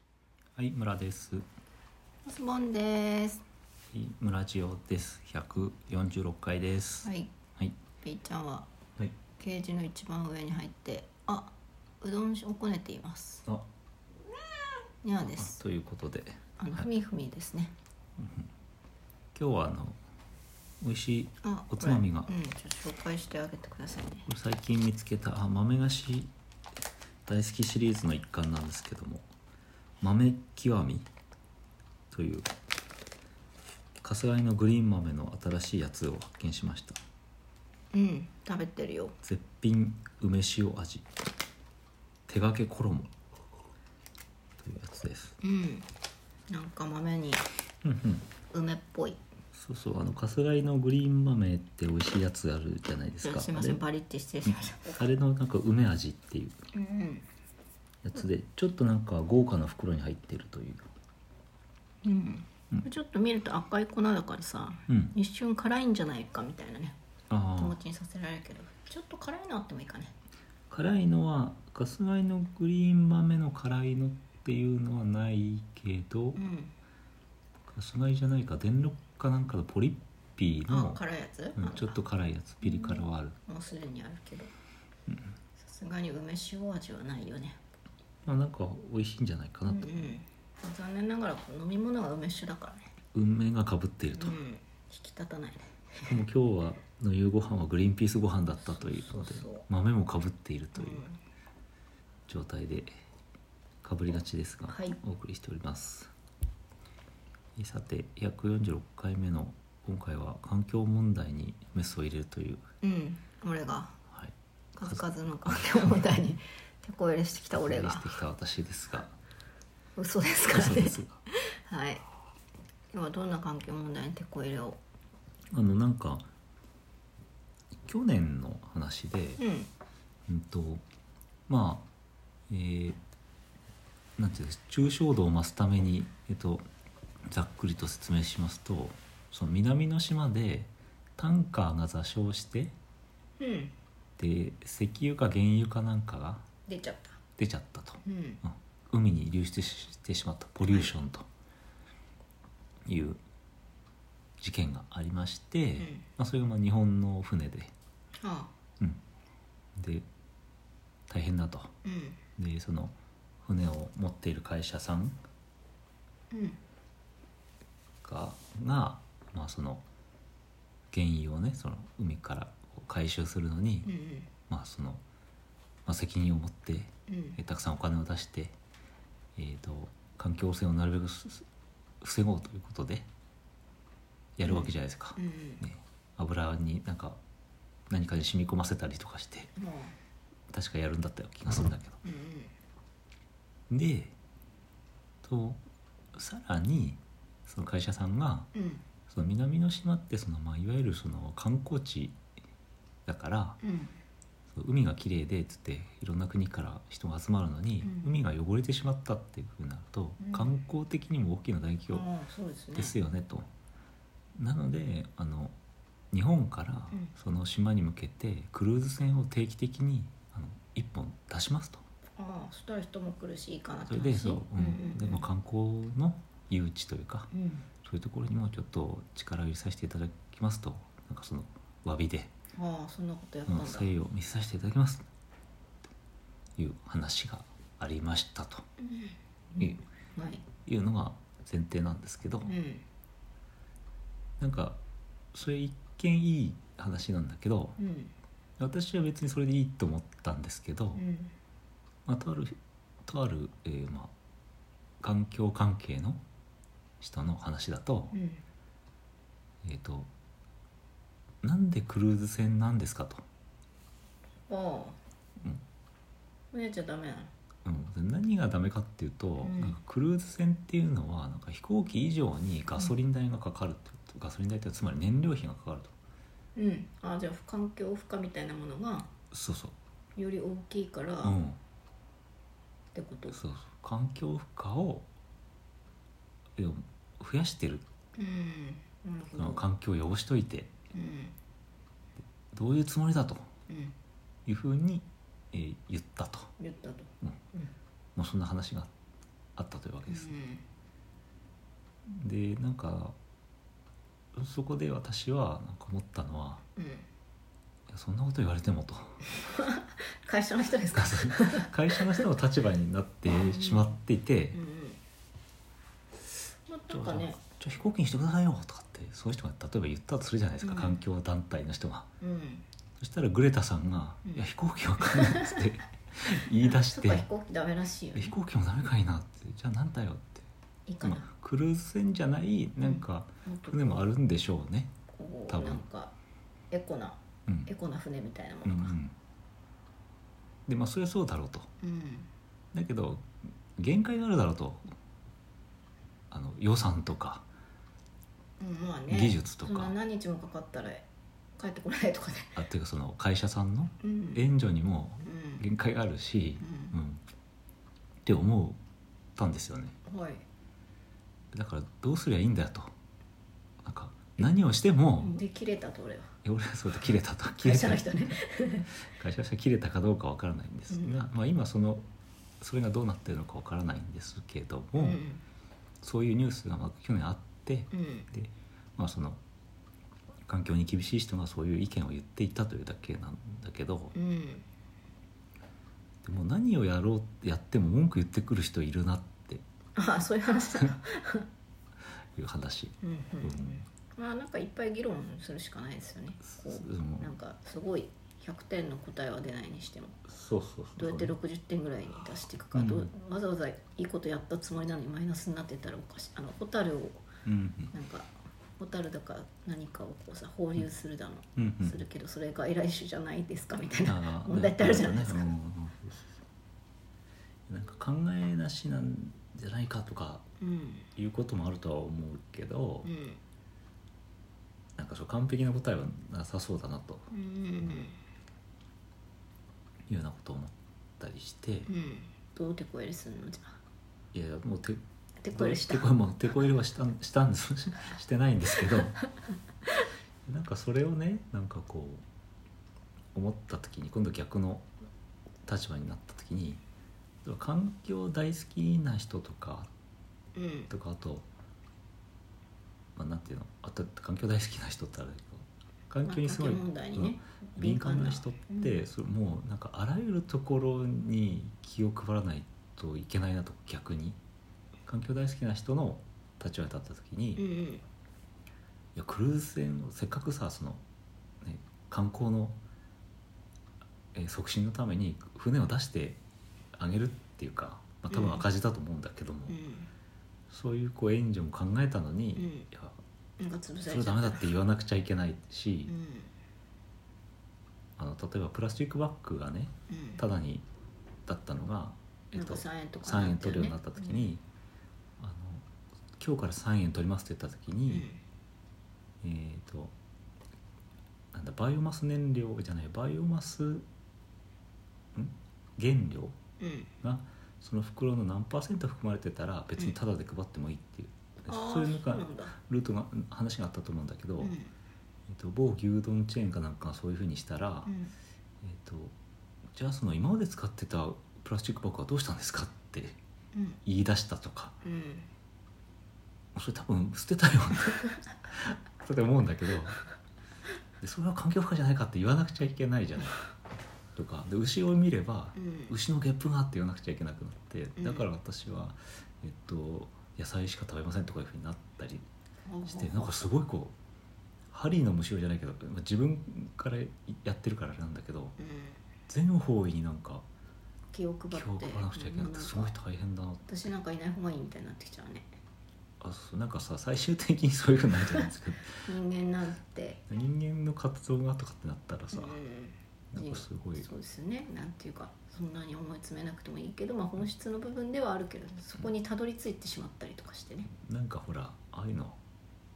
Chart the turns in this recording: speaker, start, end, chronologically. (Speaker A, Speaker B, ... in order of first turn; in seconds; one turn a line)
Speaker A: 0.6-1.4
Speaker B: 2.2-3.4
Speaker A: 3.9-7.8
Speaker B: 7.0-7.3
Speaker B: 8.0-8.7
Speaker B: 9.4-13.4
Speaker B: 15.0-15.6
Speaker A: 15.3-16.8
Speaker B: 16.6-17.7
Speaker A: 18.2-18.5
Speaker A: 19.3-20.0
Speaker A: 20.8-22.3
Speaker B: 21.4-24.3
Speaker A: 24.3-26.3
Speaker A: 27.2-29.3
Speaker A: 30.0-31.1
Speaker A: 32.1-32.5
Speaker A: 34.0-37.0
Speaker B: 37.9-39.1
Speaker A: 39.2-41.0
Speaker A: 42.3-43.1
Speaker A: 44.6-45.4
Speaker B: 45.4-45.9
Speaker B: 46.5-47.5
Speaker A: 47.8-48.3
Speaker B: 48.5-49.2
Speaker A: 49.5-53.8
Speaker B: 53.2-55.0
Speaker A: 54.4-56.6
Speaker B: 56.7-57.3
Speaker A: 58.0-60.9
Speaker B: 62.0-67.0
Speaker A: 64.9-65.1
Speaker A: 67.3-67.8
Speaker B: 67.5-70.1
Speaker A: 70.7-76.4
Speaker B: 76.3-76.7
Speaker A: 77.7-81.0
Speaker B: 80.7-82.0
Speaker A: 81.5-83.3
Speaker B: 82.8-84.5
Speaker B: 85.6-87.6
Speaker A: 88.2-90.2
Speaker B: 89.7-92.9
Speaker A: 93.1-94.4
Speaker B: 94.2-96.2
Speaker A: 96.0-101.0
Speaker B: 98.7-99.6
Speaker B: 100.8-101.2
Speaker A: 102.3-102.9
Speaker A: 103.8-106.1
Speaker B: 104.7-105.0
Speaker A: 107.6-112.6
Speaker B: 112.8-114.0
Speaker A: 114.1-115.9
Speaker B: 114.8-118.1
Speaker A: 117.5-119.2
Speaker B: 120.0-122.0
Speaker A: 120.5-121.2
Speaker B: 122.9-124.8
Speaker A: 125.5-126.3
Speaker A: 127.8-129.4
Speaker B: 129.4-129.7
Speaker A: 130.3-130.8
Speaker A: 131.5-131.8
Speaker A: 132.5-133.0
Speaker A: 134.2-136.7
Speaker A: 137.3-142.7
Speaker B: 143.4-143.7
Speaker A: 144.2-146.4
Speaker B: 146.7-147.2
Speaker A: 147.4-151.3
Speaker B: 148.0-148.4
Speaker A: 152.8-153.2
Speaker A: 154.4-157.7
Speaker B: 155.8-156.0
Speaker B: 158.2-158.5
Speaker A: 159.8-160.1
Speaker A: 161.1-161.7
Speaker B: 161.8-162.2
Speaker A: 162.3-165.2
Speaker B: 166.3-166.6
Speaker A: 168.0-169.8
Speaker A: 170.9-173.9
Speaker B: 173.8-174.3
Speaker A: 174.5-175.0
Speaker A: 175.8-178.6
Speaker B: 177.1-177.4
Speaker A: 179.3-181.4
Speaker A: 182.0-183.1
Speaker A: 184.4-187.2
Speaker B: 184.4-185.6
Speaker A: 187.9-189.5
Speaker B: 189.6-189.9
Speaker A: 190.5-192.0
Speaker B: 192.0-192.5
Speaker A: 193.7-194.1
Speaker A: 195.2-195.6
Speaker A: 196.1-198.5
Speaker B: 198.5-198.8
Speaker A: 199.1-202.2
Speaker A: 203.1-203.6
Speaker B: 203.6-203.9
Speaker A: 204.5-212.1
Speaker B: 207.8-208.2
Speaker B: 210.2-210.5
Speaker B: 211.9-212.9
Speaker A: 212.7-213.5
Speaker A: 214.3-215.5
Speaker A: 216.1-221.8
Speaker B: 222.2-225.2
Speaker A: 223.9-227.3
Speaker B: 227.3-227.6
Speaker A: 227.8-232.3
Speaker B: 232.5-233.9
Speaker A: 233.5-235.1
Speaker A: 236.6-238.6
Speaker B: 238.9-239.6
Speaker A: 239.6-239.8
Speaker B: 240.1-240.5
Speaker A: 240.5-242.5
Speaker B: 242.4-242.8
Speaker A: 244.4-244.8
Speaker A: 245.3-247.8
Speaker B: 247.8-248.1
Speaker A: 248.6-251.0
Speaker B: 250.9-251.3
Speaker A: 252.1-254.1
Speaker A: 255.0-256.2
Speaker A: 257.0-258.1
Speaker B: 258.1-258.4
Speaker A: 259.6-260.1
Speaker A: 261.4-263.2
Speaker B: 264.5-265.0
Speaker B: 266.5-267.3
Speaker A: 267.6-275.9
Speaker B: 269.4-269.8
Speaker B: 276.6-279.1
Speaker A: 279.3-279.7
Speaker B: 280.1-281.4
Speaker A: 281.2-281.6
Speaker B: 282.9-283.4
Speaker A: 283.3-285.1
Speaker A: 286.6-287.8
Speaker B: 288.1-289.6
Speaker A: 289.4-290.7
Speaker B: 290.9-291.3
Speaker A: 292.5-293.5
Speaker B: 293.7-293.9
Speaker A: 294.4-296.5
Speaker B: 296.6-297.7
Speaker A: 298.1-298.9
Speaker A: 299.6-300.4
Speaker B: 300.1-300.6
Speaker A: 302.1-303.1
Speaker A: 304.3-306.6
Speaker B: 306.8-307.1
Speaker A: 307.9-309.3
Speaker B: 309.4-312.2
Speaker A: 310.9-314.6
Speaker B: 313.3-313.8
Speaker B: 314.5-315.0
Speaker B: 316.7-317.4
Speaker A: 316.9-322.1
Speaker B: 320.6-321.0
Speaker B: 322.2-322.6
Speaker A: 323.0-327.2
Speaker B: 325.1-325.5
Speaker B: 326.6-328.3
Speaker A: 328.1-330.5
Speaker B: 330.9-331.2
Speaker A: 331.0-334.9
Speaker B: 332.8-334.1
Speaker B: 335.1-336.1
Speaker A: 335.5-335.8
Speaker B: 336.7-338.9
Speaker A: 338.6-339.1
Speaker A: 340.7-341.7
Speaker B: 341.8-342.3
Speaker A: 342.7-344.9
Speaker A: 346.3-347.4
Speaker B: 348.6-352.6
Speaker A: 349.1-349.9
Speaker A: 352.5-357.2
Speaker B: 354.0-354.4
Speaker B: 355.2-355.6
Speaker B: 356.6-356.9
Speaker A: 358.2-358.8
Speaker A: 359.4-360.0
Speaker B: 360.1-360.4
Speaker A: 361.5-362.9
Speaker A: 363.8-365.4
Speaker B: 365.2-366.3
Speaker A: 366.4-368.4
Speaker B: 367.6-368.9
Speaker A: 368.9-372.0
Speaker B: 370.9-371.2
Speaker A: 372.6-375.2
Speaker B: 375.0-375.4
Speaker A: 376.0-379.4
Speaker B: 377.9-378.3
Speaker A: 380.5-384.1
Speaker B: 384.1-384.6
Speaker A: 386.2-389.6
Speaker B: 389.9-391.5
Speaker A: 392.3-393.8
Speaker B: 393.0-400.2
Speaker A: 396.4-397.3
Speaker A: 400.3-401.3
Speaker B: 401.0-407.2
Speaker A: 402.7-403.1
Speaker A: 407.4-407.9
Speaker B: 407.9-415.5
Speaker A: 411.6-412.0
Speaker A: 414.0-416.4
Speaker A: 417.7-420.4
Speaker B: 420.6-421.1
Speaker A: 421.1-423.1
Speaker B: 423.0-423.4
Speaker A: 425.0-427.3
Speaker B: 427.3-428.2
Speaker A: 430.1-431.9
Speaker B: 431.9-433.8
Speaker A: 434.3-435.0
Speaker B: 435.4-436.1
Speaker A: 435.5-439.2
Speaker A: 440.4-442.2
Speaker A: 443.3-444.9
Speaker A: 445.6-446.8
Speaker A: 447.4-449.9
Speaker B: 450.5-450.9
Speaker A: 450.9-451.5
Speaker A: 453.1-464.4
Speaker B: 456.2-458.9
Speaker A: 465.1-467.6
Speaker B: 467.6-468.0
Speaker A: 469.1-471.0
Speaker A: 471.6-472.8
Speaker A: 474.3-476.4
Speaker A: 476.9-479.8
Speaker B: 478.3-478.6
Speaker B: 479.7-480.1
Speaker A: 480.7-483.2
Speaker B: 482.6-482.9
Speaker B: 483.6-484.8
Speaker A: 484.1-486.1
Speaker B: 486.1-486.5
Speaker A: 488.2-490.8
Speaker B: 490.1-490.4
Speaker A: 491.5-494.6
Speaker B: 492.5-494.4
Speaker A: 495.4-495.9
Speaker A: 496.4-498.3
Speaker B: 498.1-498.4
Speaker A: 499.4-500.1
Speaker A: 501.5-504.1
Speaker A: 505.3-506.6
Speaker B: 506.8-507.1
Speaker A: 507.2-514.7
Speaker B: 511.6-512.7
Speaker B: 514.6-514.9
Speaker A: 515.5-518.1
Speaker B: 518.0-518.3
Speaker A: 518.8-519.3
Speaker A: 519.9-523.4
Speaker B: 523.7-524.0
Speaker A: 524.0-525.0
Speaker B: 525.0-525.5
Speaker A: 526.7-530.2
Speaker A: 531.2-533.6
Speaker A: 534.4-542.5
Speaker B: 535.8-536.1
Speaker B: 538.2-538.5
Speaker B: 542.8-543.7
Speaker A: 543.0-544.1
Speaker A: 544.9-548.8
Speaker B: 548.8-549.2
Speaker A: 549.5-550.6
Speaker B: 551.3-553.1
Speaker A: 551.7-553.9
Speaker B: 553.8-555.7
Speaker A: 556.4-559.2
Speaker B: 559.2-560.4
Speaker A: 560.5-562.8
Speaker B: 562.5-571.1
Speaker A: 563.5-564.3
Speaker A: 571.1-572.6